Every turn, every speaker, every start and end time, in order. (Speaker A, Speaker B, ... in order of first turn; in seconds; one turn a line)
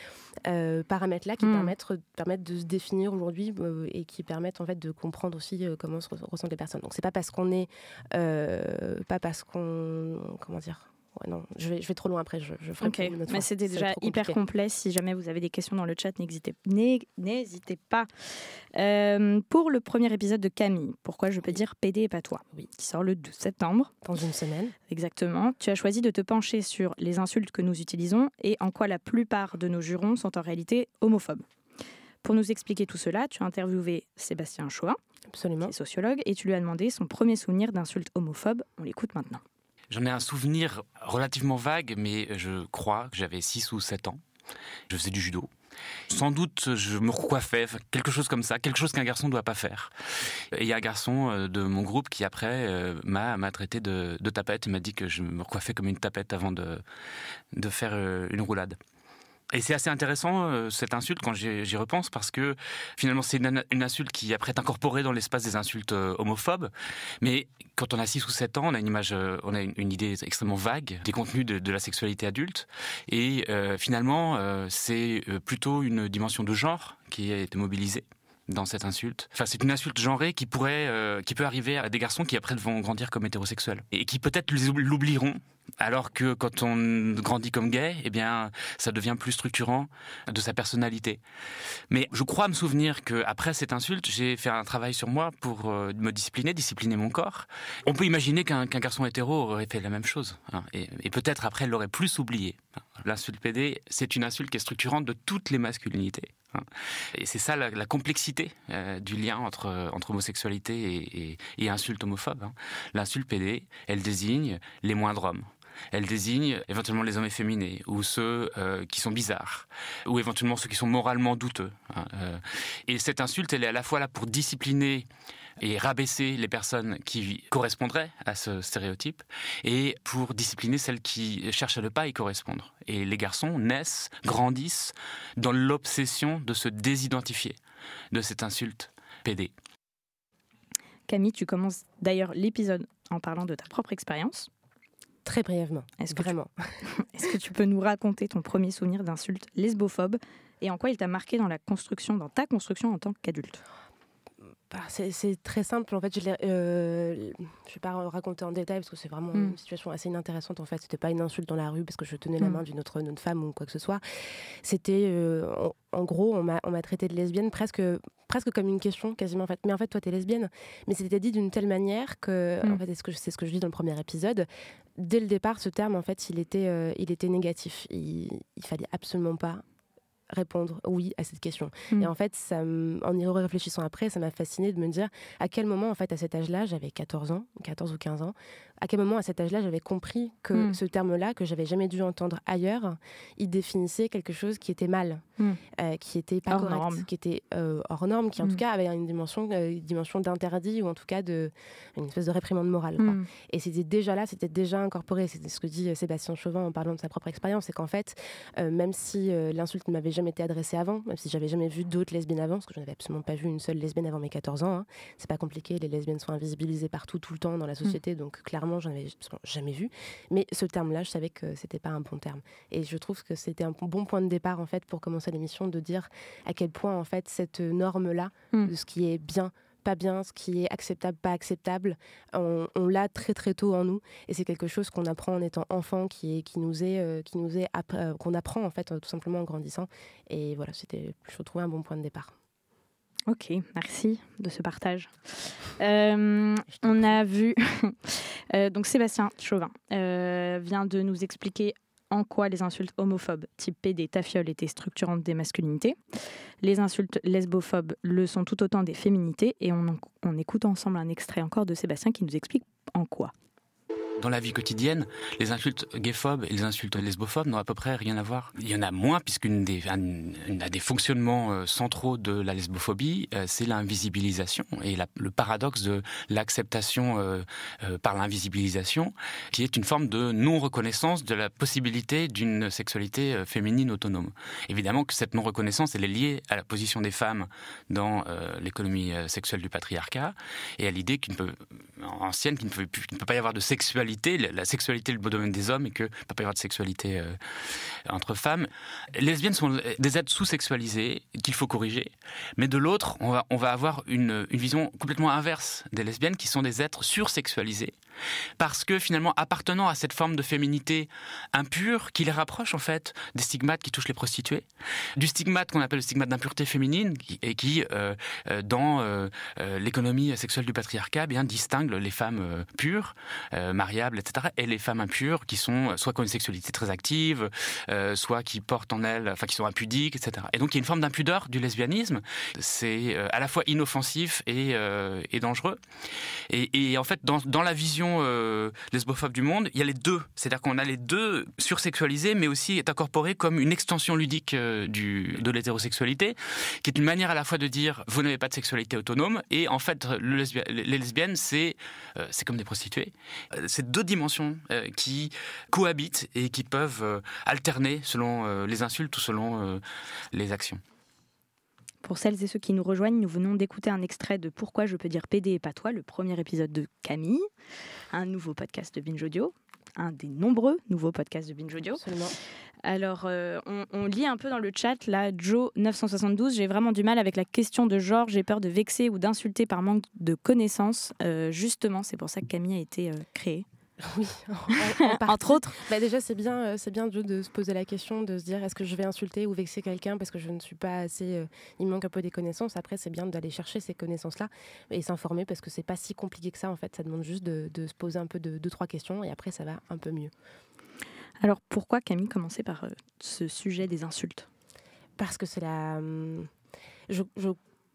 Speaker A: 0.4-14.4
Speaker B: 1.4-1.7
Speaker B: 12.8-23.9
Speaker A: 24.0-24.7
Speaker B: 24.9-31.4
Speaker B: 32.2-35.0
Speaker A: 35.3-35.7
Speaker B: 35.6-39.4
Speaker C: 39.9-44.2
Speaker C: 44.9-45.5
Speaker C: 46.1-56.8
Speaker C: 57.5-58.8
Speaker C: 59.5-66.7
Speaker C: 67.2-91.2
Speaker C: 91.9-125.1
Speaker C: 125.6-137.6
Speaker C: 138.1-139.5
Speaker B: 141.1-144.5
Speaker A: 145.2-146.8
Speaker B: 146.0-146.3
Speaker B: 146.9-153.6
Speaker A: 154.7-164.0
Speaker A: 164.6-179.6
Speaker A: 180.3-242.3
Speaker B: 196.5-197.1
Speaker B: 203.0-203.3
Speaker B: 243.3-256.0
Speaker B: 256.6-263.3
Speaker C: 264.2-307.9
Speaker C: 308.6-314.6
Speaker C: 315.2-335.8
Speaker C: 336.5-360.8
Speaker B: 362.0-367.5
Speaker B: 368.1-372.0
Speaker A: 372.0-372.3
Speaker B: 372.8-383.6
Speaker A: 384.0-400.3
Speaker B: 384.8-385.7
Speaker B: 401.4-404.5
Speaker A: 405.2-406.5
Speaker A: 407.1-407.6